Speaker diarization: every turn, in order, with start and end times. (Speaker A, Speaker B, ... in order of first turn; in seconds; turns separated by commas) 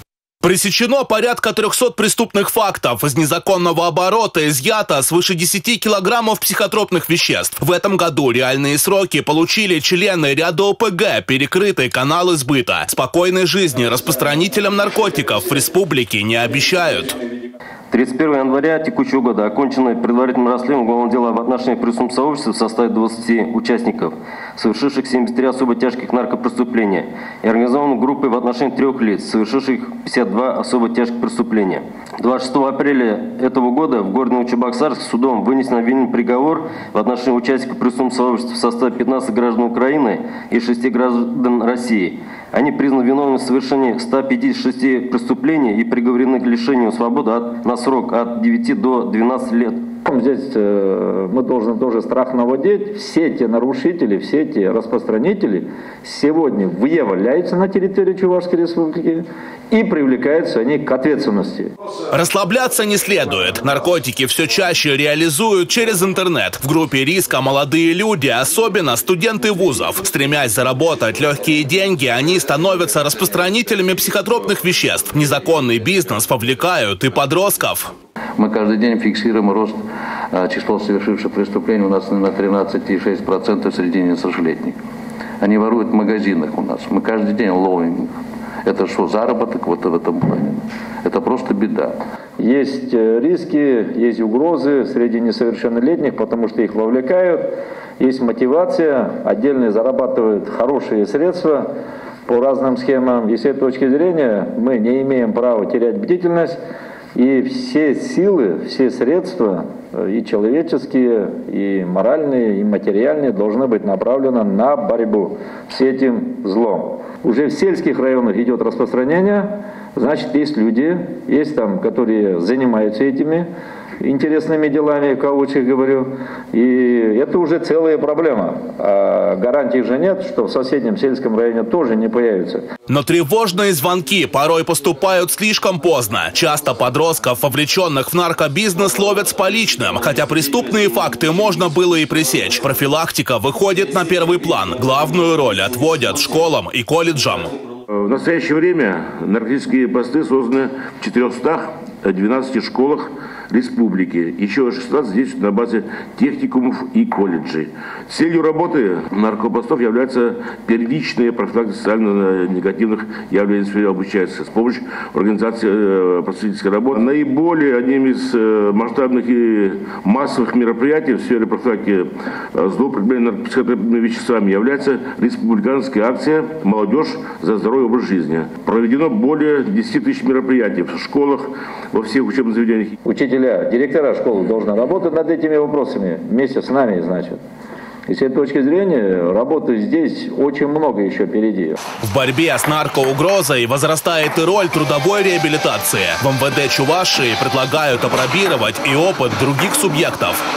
Speaker A: 0.4-17.2, Speaker B: 17.9-49.8, Speaker C: 50.0-61.7, Speaker A: 62.1-77.9, Speaker D: 78.4-79.8, Speaker D: 80.3-84.8, Speaker D: 85.4-88.1, Speaker D: 88.6-91.9, Speaker C: 92.4-97.4, Speaker C: 98.0-101.7, Speaker C: 102.2-106.6, Speaker C: 107.1-123.5, Speaker C: 124.0-132.6, Speaker A: 132.9-147.5, Speaker E: 148.0-182.9, Speaker C: 183.1-187.4, Speaker C: 188.1-191.8, Speaker A: 192.0-200.4